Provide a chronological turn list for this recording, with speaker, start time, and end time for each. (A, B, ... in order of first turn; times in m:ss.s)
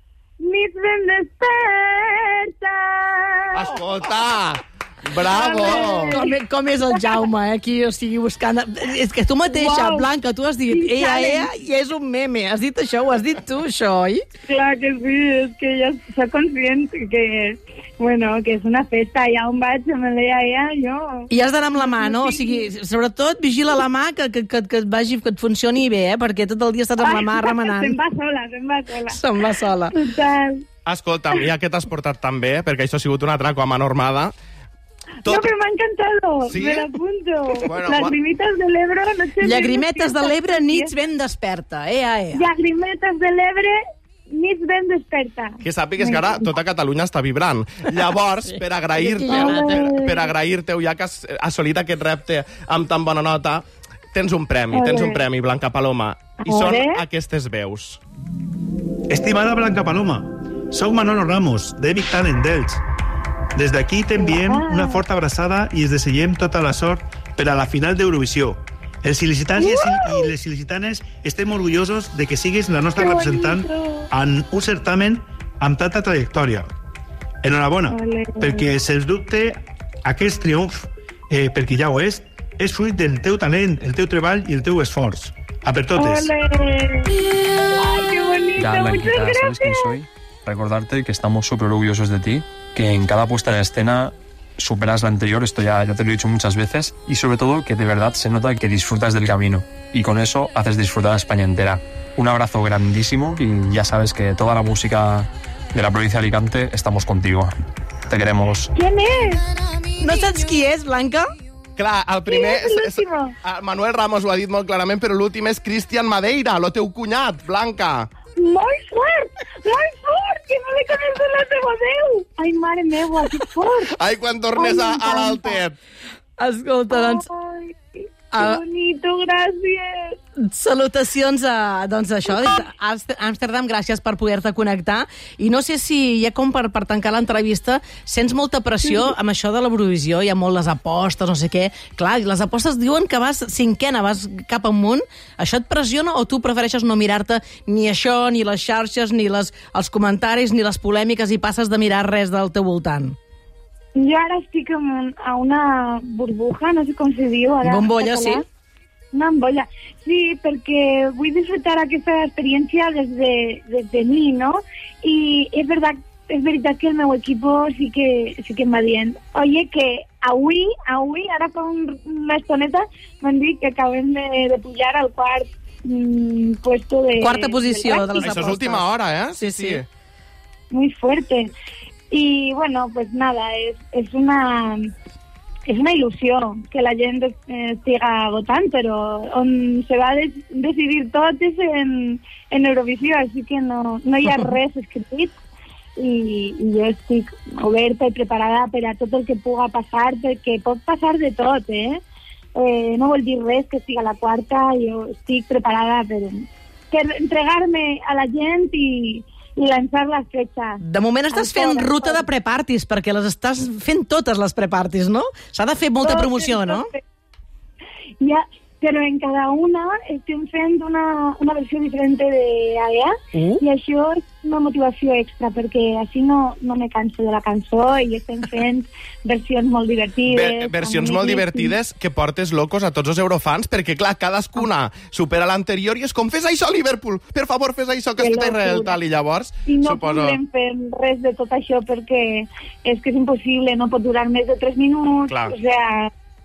0:00.4-0:03.7 A
0:03.5-0:06.2 B
0:05.2-0:06.4 A
0:06.0-0:14.2 C
0:09.5-0:10.1 A
0:10.7-0:11.5 A
0:14.5-0:22.7 A
0:21.3-0:28.0 C
0:27.0-0:29.2 A
0:29.1-0:30.0 C
0:29.9-0:30.6 A
0:30.9-0:34.3 B
0:35.2-0:35.5 B
0:35.2-0:40.9 A
0:36.5-0:36.9 B
0:37.6-0:38.2 B
0:39.4-0:42.5 C
0:42.3-0:43.8 A
0:44.3-0:46.6 A
0:45.6-0:58.0 B
0:48.4-0:49.9 C
0:49.3-0:50.3 A
0:54.7-0:55.2 A
0:56.4-0:57.0 A
0:59.1-1:02.8 D
1:03.6-1:16.7 D
1:04.2-1:05.0 A
1:09.6-1:10.3 A
1:13.0-1:14.1 A
1:17.4-1:26.3 D
1:17.9-1:18.7 A
1:26.0-1:27.2 A
1:27.8-1:29.9 A
1:28.6-1:47.5 E
1:48.1-1:48.7 E
1:48.8-1:49.4 A
1:50.0-1:51.2 C
1:51.8-1:58.1 B
1:52.3-1:53.4 A
1:58.4-2:04.0 A
2:03.9-2:05.8 B
2:04.6-2:05.6 A
2:06.4-2:07.3 C
2:06.9-2:07.8 A
2:08.3-2:08.6 C
2:08.3-2:10.2 A
2:10.4-2:33.2 C
2:12.3-2:12.6 A
2:18.8-2:19.1 A
2:34.0-2:38.4 A
2:37.6-2:38.4 C
2:39.1-2:58.3 A
2:57.2-2:59.8 C
2:58.2-2:59.8 B
3:00.7-3:01.5 A
3:02.1-3:04.9 A
3:05.7-3:15.3 A
3:16.0-3:22.0 A
3:22.6-3:30.8 A
3:30.8-3:36.8 C
3:31.3-3:32.2 A
3:36.0-3:37.0 A
3:38.2-3:51.8 A
3:43.3-3:43.6 C
3:50.3-4:00.4 B
3:58.2-3:59.0 A
3:59.7-4:06.1 A
4:05.3-4:05.6 B